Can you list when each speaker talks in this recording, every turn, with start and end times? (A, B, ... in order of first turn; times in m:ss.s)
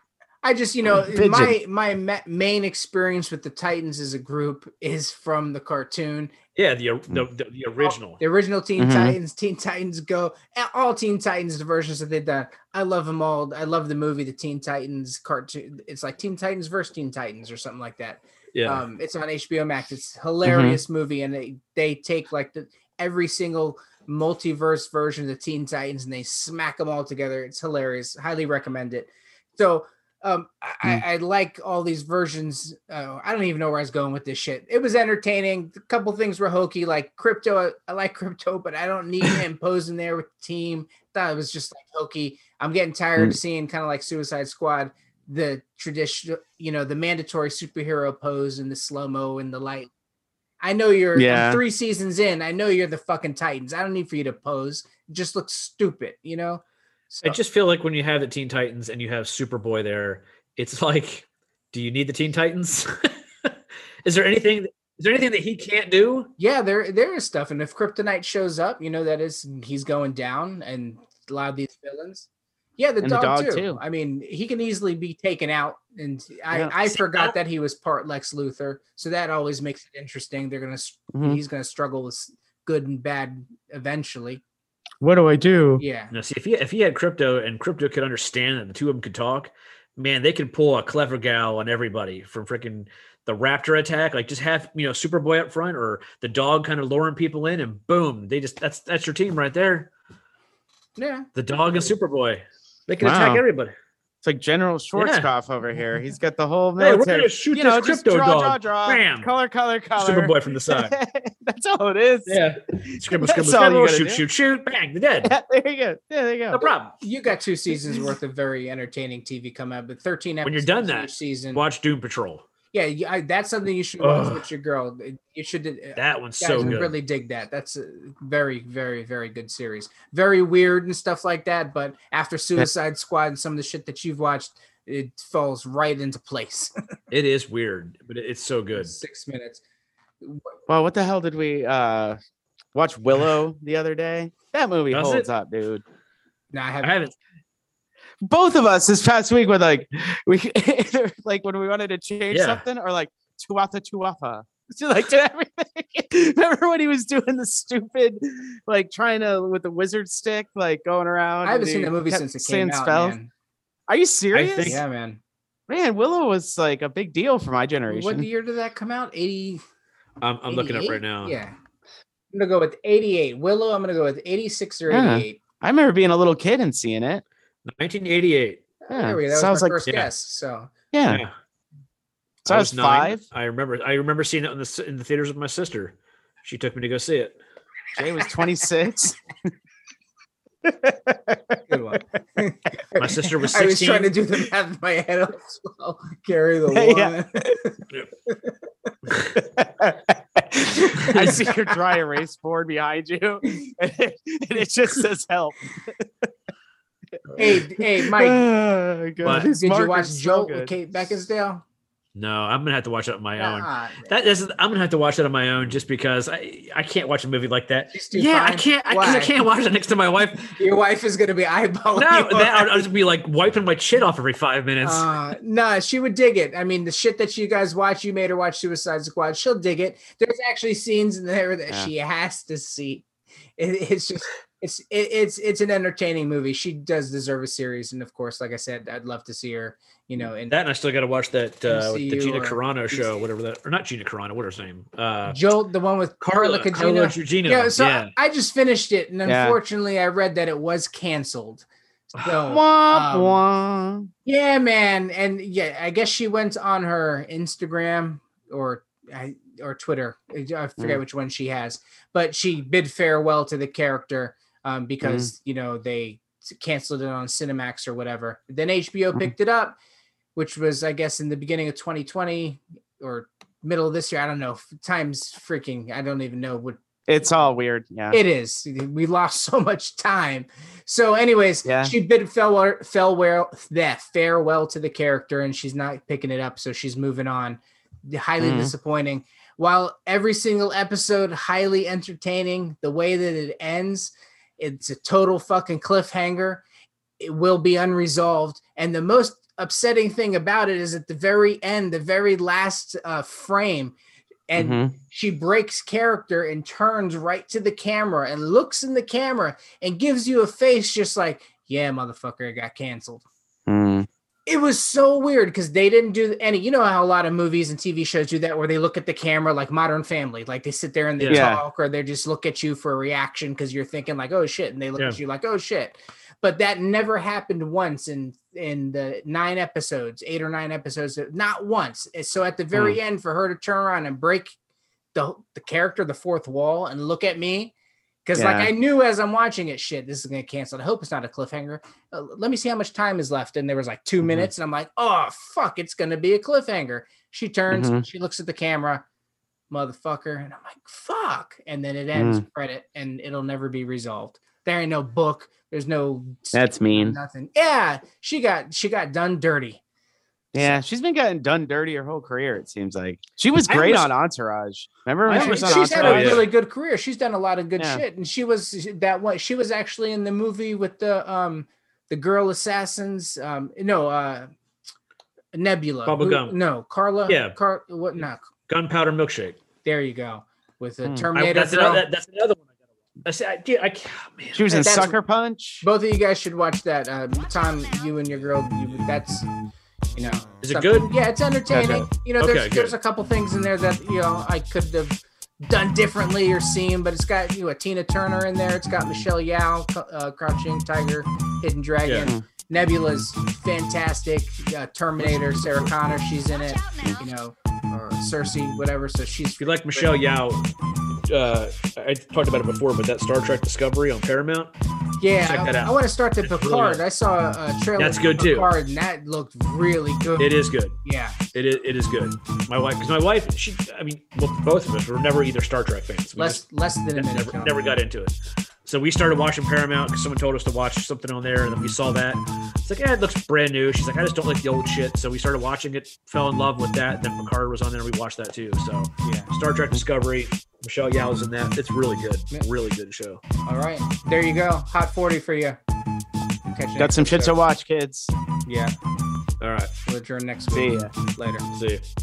0:00.4-0:06.3 A
0:01.0-0:01.5 B
0:06.6-0:08.2 C
0:07.8-0:49.9 A
0:08.8-0:09.2 B
0:18.6-0:18.8 C
0:20.4-0:20.8 B
0:50.6-0:57.4 A
0:51.2-0:51.6 B
0:57.2-1:03.5 C
1:04.0-1:06.3 C
1:06.4-1:12.3 A
1:12.8-1:24.4 A
1:13.0-1:13.8 B
1:21.1-1:21.4 B
1:25.0-1:25.8 B
1:25.8-1:26.1 A
1:26.1-1:39.9 C
1:41.0-1:41.3 A
1:41.4-1:43.7 C
1:43.0-1:43.4 B
1:44.2-1:54.2 B
1:45.0-1:45.3 C
1:46.8-1:49.3 C
1:50.0-1:51.0 C
1:52.3-1:55.3 C
1:55.2-1:56.6 B
1:56.5-1:57.0 C
1:57.0-2:01.6 A
2:00.4-2:02.4 C
2:02.7-2:16.7 A
2:04.0-2:04.4 C
2:06.0-2:07.0 C
2:17.1-2:19.0 C
2:18.8-2:19.6 A
2:20.2-2:20.5 A
2:20.7-2:22.2 B
2:22.7-2:25.8 B
2:24.9-2:25.3 C
2:26.5-2:26.9 A
2:26.8-2:27.1 C
2:28.2-2:43.2 B
2:32.3-2:32.6 C
2:41.4-2:43.3 A
2:43.9-2:44.8 B
2:44.3-2:44.8 C
2:44.6-2:45.2 A
2:45.7-2:48.3 B
2:47.9-2:49.6 A
2:50.2-2:51.4 C
2:50.5-2:51.6 A
2:52.3-2:55.4 A
2:54.9-2:57.2 B
2:57.6-2:58.6 C
2:58.9-3:00.7 A
2:58.9-2:59.8 B
3:00.9-3:01.2 B
3:02.4-3:07.4 C
3:02.5-3:03.2 B
3:08.0-3:09.5 B
3:10.6-3:12.0 B
3:11.7-3:18.5 A
3:13.0-3:14.1 C
3:16.7-3:17.6 B
3:19.4-3:26.3 B
3:21.0-3:21.5 A
3:21.1-3:21.4 C
3:27.2-3:30.8 B
3:27.4-3:28.4 A
3:29.2-3:29.5 C
3:29.3-3:31.6 A
3:32.2-3:40.6 C
3:33.4-3:34.1 A
3:37.9-3:39.3 A
3:40.5-3:42.9 A
3:42.0-3:45.1 C
3:44.8-3:53.0 A
3:53.6-4:00.5 A
4:00.5-4:05.5 C
4:01.7-4:03.2 A
4:05.3-4:13.4 A
4:06.2-4:08.1 C
4:09.2-4:09.6 B
4:12.5-4:14.1 B
4:14.2-4:29.8 A
4:25.0-4:25.3 B
4:30.4-4:36.8 A
4:37.1-4:38.2 B
4:38.1-4:56.6 A
4:41.6-4:41.9 B
4:48.4-4:48.7 B
4:57.2-5:04.0 A
5:04.5-5:13.2 A
5:04.6-5:04.9 B
5:13.7-5:14.1 B
5:14.5-5:34.5 A
5:21.2-5:21.5 C
5:21.3-5:21.6 B
5:35.1-5:37.7 A
5:38.2-5:49.0 A
5:38.3-5:38.7 B
5:44.2-5:44.5 B
5:47.7-5:48.0 B
5:49.7-5:59.8 A
5:52.1-5:52.4 B
5:56.5-5:57.2 B
6:00.6-6:06.4 B
6:00.6-6:00.8 A
6:03.7-6:04.1 C
6:05.3-6:06.5 C
6:05.3-6:14.5 A
6:07.8-6:08.0 B
6:15.5-6:18.4 A
6:16.1-6:16.6 C
6:17.3-6:17.6 C
6:18.7-6:19.6 C
6:19.8-6:22.0 A
6:21.4-6:22.6 C
6:23.2-6:24.7 C
6:24.5-6:25.9 B
6:24.7-6:25.2 A
6:25.8-6:29.5 A
6:30.2-6:50.1 A
6:30.6-6:31.1 C
6:31.7-6:32.1 B
6:32.4-6:33.0 C
6:42.0-6:42.3 C
6:45.4-6:46.0 C
6:49.6-6:50.7 C
6:51.3-6:54.7 C
6:55.2-7:00.5 A
6:55.4-6:57.0 C
6:58.0-6:58.7 C
7:00.4-7:01.0 C
7:01.0-7:01.4 A
7:01.5-7:06.6 C
7:06.4-7:07.8 A
7:07.2-7:08.3 C
7:08.9-7:23.4 C
7:19.2-7:19.5 A
7:23.7-7:25.8 A
7:26.7-7:27.6 A
7:27.0-7:28.3 B
7:28.7-7:28.9 A
7:29.6-7:29.9 C
7:30.1-7:31.6 A
7:30.7-7:31.1 B
7:31.7-7:32.0 C